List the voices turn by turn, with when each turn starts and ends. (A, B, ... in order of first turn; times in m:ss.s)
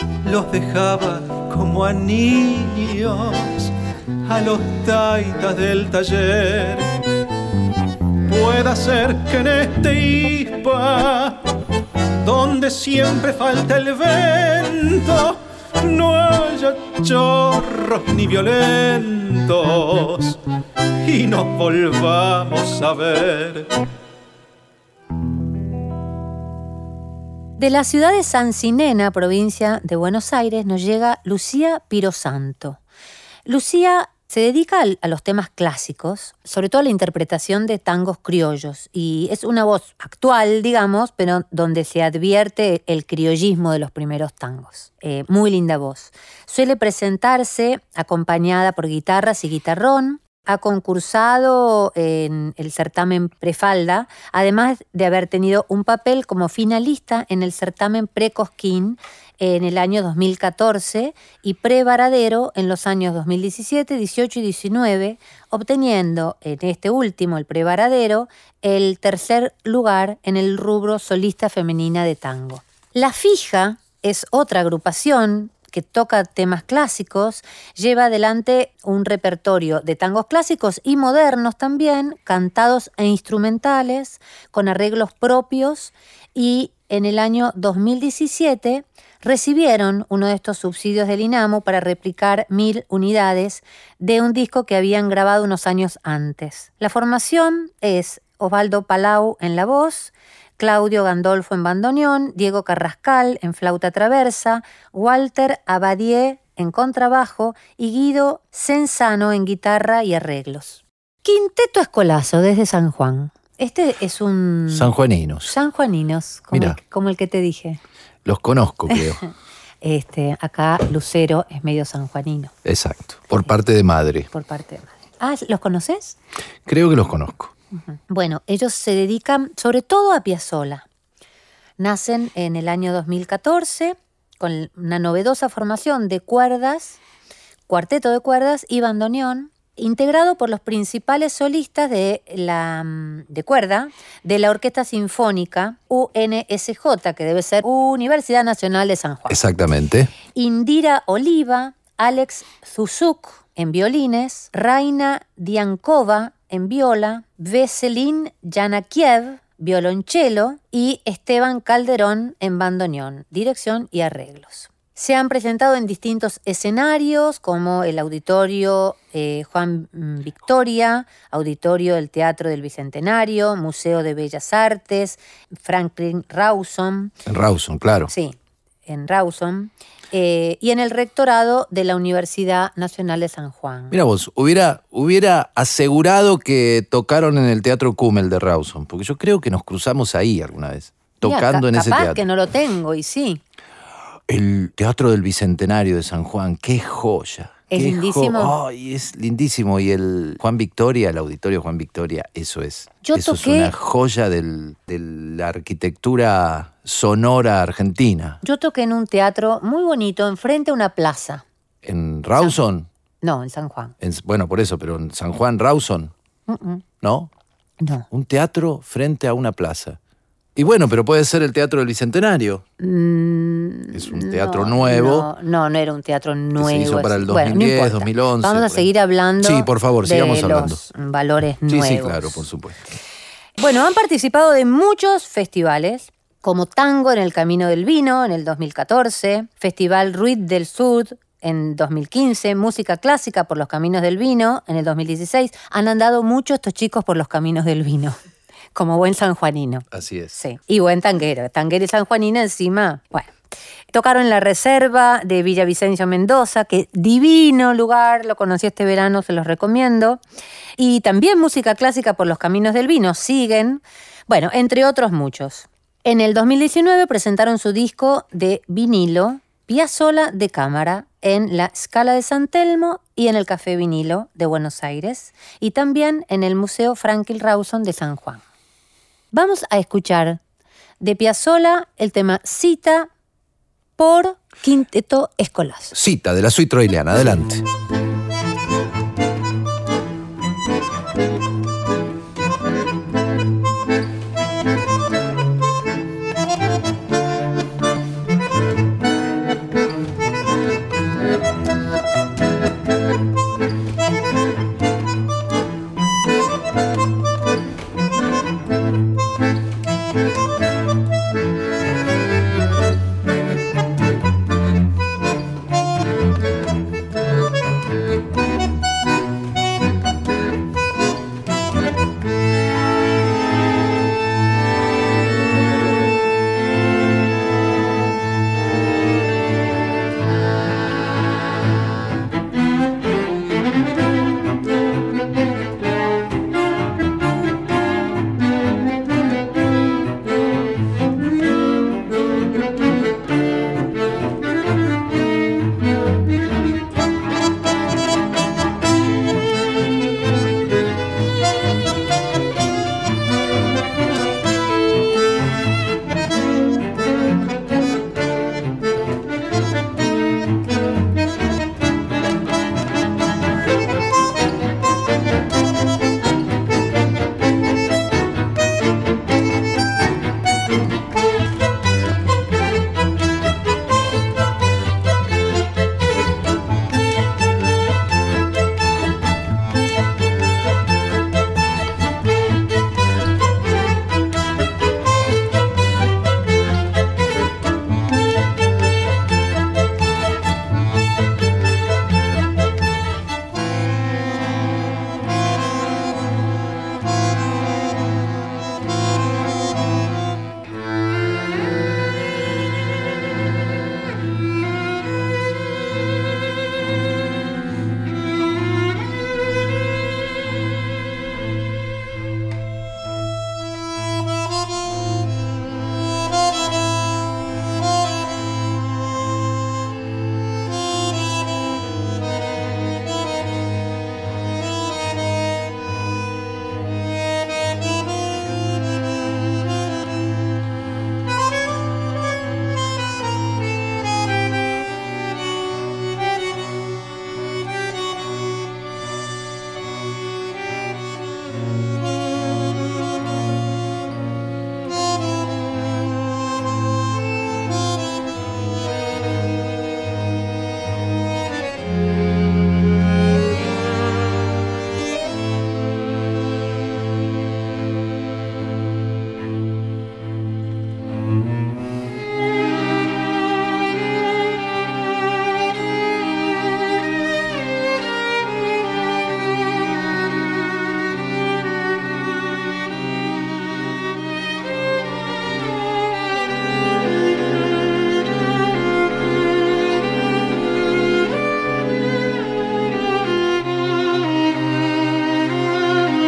0:00.2-0:03.7 A
0:04.2-0:07.0 A
0:08.3-0:11.4 A
0:12.2-0:20.4 A
0:21.0-0:23.7 A
0:27.6-0:32.8 B
0:33.5-1:54.9 B
1:54.7-1:55.5 C
1:55.4-1:57.8 B
1:56.5-1:56.8 C
1:58.2-1:59.2 C
1:58.9-1:59.3 B
1:59.8-2:02.5 B
2:02.6-2:04.3 C
2:04.3-2:06.2 B
2:06.7-2:07.5 C
2:07.7-2:10.9 B
2:11.8-2:17.0 B
2:17.7-2:29.4 B
2:29.3-2:30.1 C
2:30.4-2:57.1 B
2:57.3-2:58.1 C
2:58.1-3:04.0 B
3:03.9-3:12.2 C
3:11.2-3:13.4 B
3:14.3-3:28.4 C
3:17.7-3:18.5 B
3:23.0-3:23.7 B
3:28.4-3:31.4 B
3:31.8-3:32.9 C
3:33.2-3:34.0 B
3:34.0-3:36.1 C
3:36.5-3:36.8 B
3:37.0-3:37.3 C
3:37.8-3:38.1 B
3:38.1-3:40.0 C
3:40.6-3:42.6 C
3:42.8-3:52.4 B
3:43.9-3:45.3 C
3:46.6-3:48.9 C
3:49.4-3:50.8 C
3:51.7-3:52.9 C
3:53.6-4:08.2 B
4:08.8-4:13.4 B
4:09.9-4:10.4 C
4:13.9-4:20.2 B
4:20.8-4:38.4 B
4:39.3-4:40.4 B
4:41.0-4:43.1 B
4:44.0-4:46.0 B
4:45.9-4:47.6 C